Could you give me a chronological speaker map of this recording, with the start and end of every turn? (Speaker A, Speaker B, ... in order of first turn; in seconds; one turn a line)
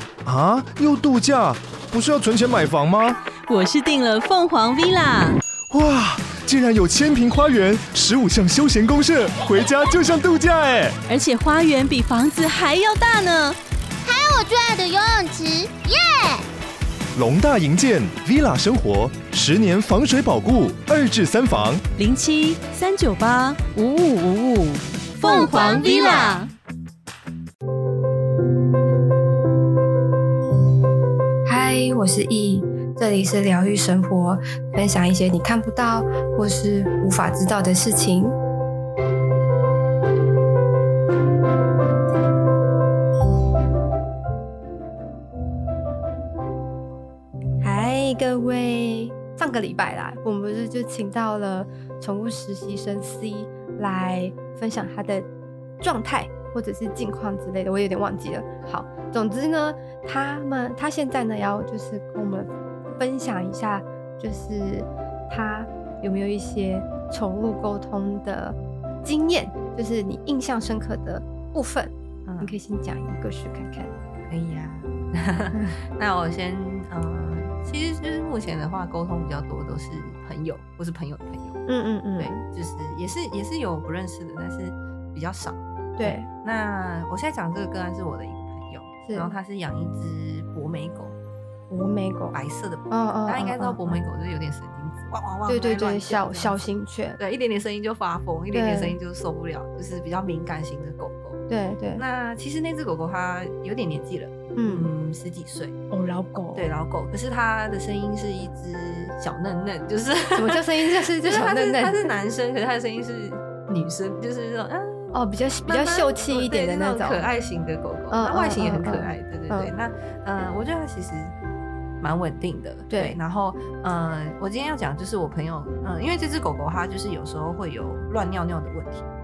Speaker A: 0.2-3.2
Speaker B: 3.5-5.4
Speaker A: 5.7-11.0
Speaker B: 11.1-13.6
Speaker C: 14.0-16.4
Speaker A: 17.1-21.8
Speaker B: 22.0-26.5
Speaker C: 25.2-26.4
Speaker D: 31.4-38.3
Speaker D: 47.6-55.3
Speaker D: 55.8-74.0
Speaker E: 72.3-72.6
Speaker E: 74.2-81.6
Speaker D: 81.7-82.4
Speaker E: 82.2-91.2
Speaker D: 86.0-86.3
Speaker D: 89.1-89.3
Speaker D: 91.7-92.4
Speaker E: 92.3-101.4
Speaker D: 92.9-94.0
Speaker D: 95.5-97.2
Speaker D: 98.5-99.0
Speaker D: 101.5-102.0
Speaker E: 102.0-105.8
Speaker D: 104.6-104.9
Speaker D: 105.9-106.6
Speaker E: 106.5-115.2
Speaker D: 110.3-112.1
Speaker D: 115.1-117.2
Speaker E: 115.7-121.3
Speaker D: 118.1-119.7
Speaker E: 122.0-129.1
Speaker D: 122.9-123.2